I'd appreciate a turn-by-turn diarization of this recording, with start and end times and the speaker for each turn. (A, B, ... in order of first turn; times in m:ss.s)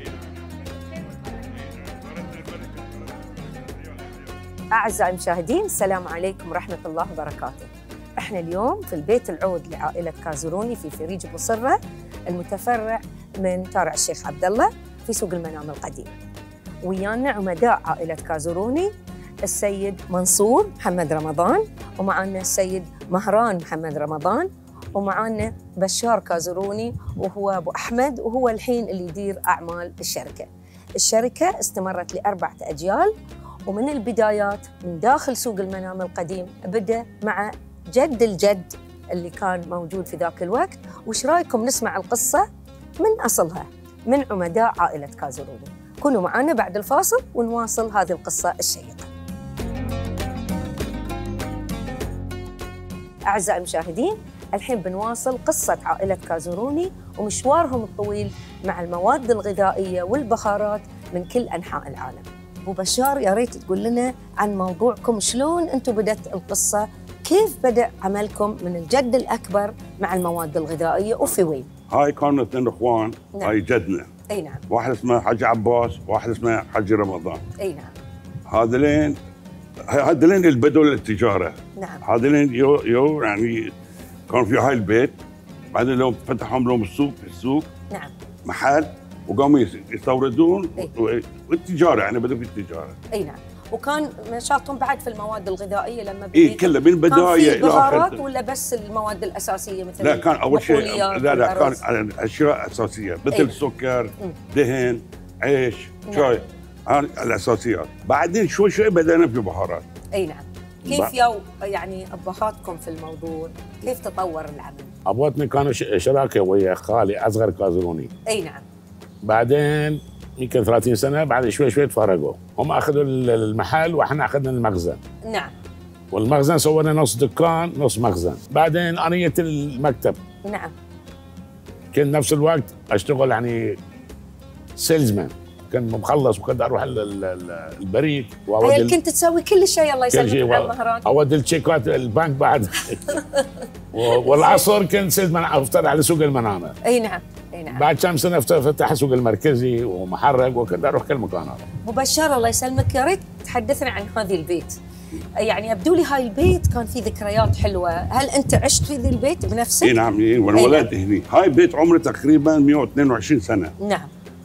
0:00.4-0:01.6 A
0:01.8-0:04.2 B
0:04.7-0:11.8 A
0:12.3-0:16.1 A
0:16.8-0:18.9 A
0:19.4-0:33.1 A
0:33.7-0:42.4 A
0:43.0-0:49.1 A
0:53.3-1:11.7 A
1:11.9-1:14.1 B
1:14.3-1:14.6 A
1:14.7-1:17.4 B
1:17.6-1:17.9 A
1:18.5-1:19.2 B
1:19.9-1:23.7 B
1:21.8-1:22.0 A
1:24.3-1:25.1 B
1:25.7-1:27.7 B
1:28.4-1:33.0 B
1:33.1-1:41.8 A
1:36.3-1:38.2 B
1:40.0-1:49.8 B
1:46.0-1:46.4 A
1:50.1-1:54.9 A
1:50.8-1:51.1 C
1:55.0-1:58.1 C
1:58.2-1:58.6 A
1:59.2-2:05.0 C
2:05.2-2:05.5 A
2:06.1-2:10.2 C
2:10.4-2:10.7 A
2:11.9-2:13.8 C
2:14.8-2:18.9 C
2:18.6-2:21.1 A
2:20.1-2:23.2 C
2:23.1-2:24.6 A
2:23.9-2:26.7 C
2:26.8-2:27.8 A
2:27.7-2:31.6 C
2:31.8-2:34.8 A
2:35.4-2:39.9 A
2:39.8-2:43.7 B
2:40.5-2:40.9 A
2:43.8-2:44.1 A